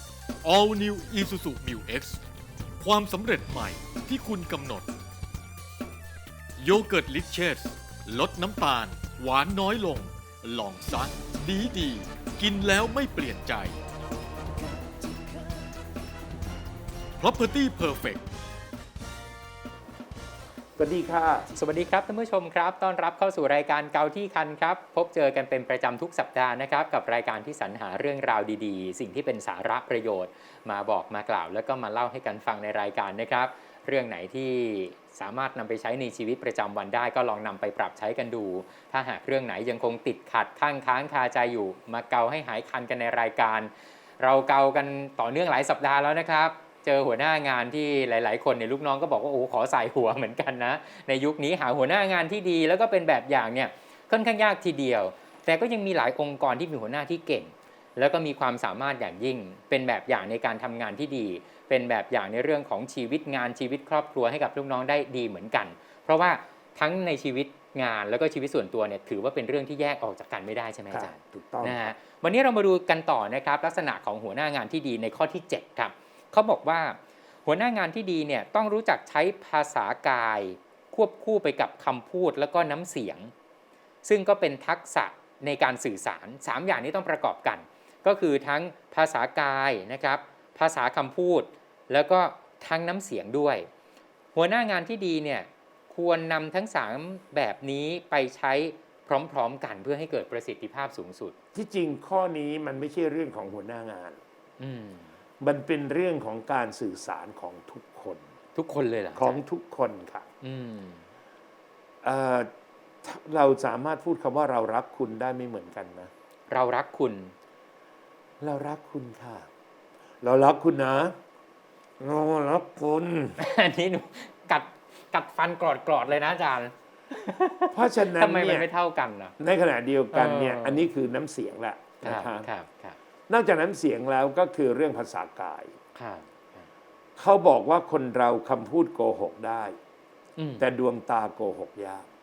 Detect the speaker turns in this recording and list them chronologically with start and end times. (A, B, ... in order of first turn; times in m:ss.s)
0:00.4-0:02.2 A
0:02.8-0:04.9 A
0:06.6-0:13.8 A
0:17.2-0:18.2 A
0:20.8-0:21.5 B
0:21.5-1:23.3 C
1:10.9-1:11.9 B
1:24.0-1:33.7 C
1:34.3-1:41.4 C
1:41.5-1:44.2 B
1:44.6-1:45.1 C
1:45.4-1:48.2 B
1:48.6-1:49.4 C
1:49.2-1:50.3 B
1:50.4-1:51.0 C
1:52.0-1:52.5 B
1:53.0-1:56.1 B
1:56.5-1:57.3 C
1:58.4-1:59.5 B
2:00.2-2:01.2 B
2:02.0-2:03.4 B
2:03.4-2:09.3 C
2:07.7-2:08.7 B
2:09.4-2:12.5 B
2:10.1-2:10.9 C
2:12.0-2:13.0 C
2:13.3-2:15.7 B
2:15.9-2:16.7 C
2:17.2-2:19.8 B
2:20.4-2:20.6 C
2:20.6-2:22.1 B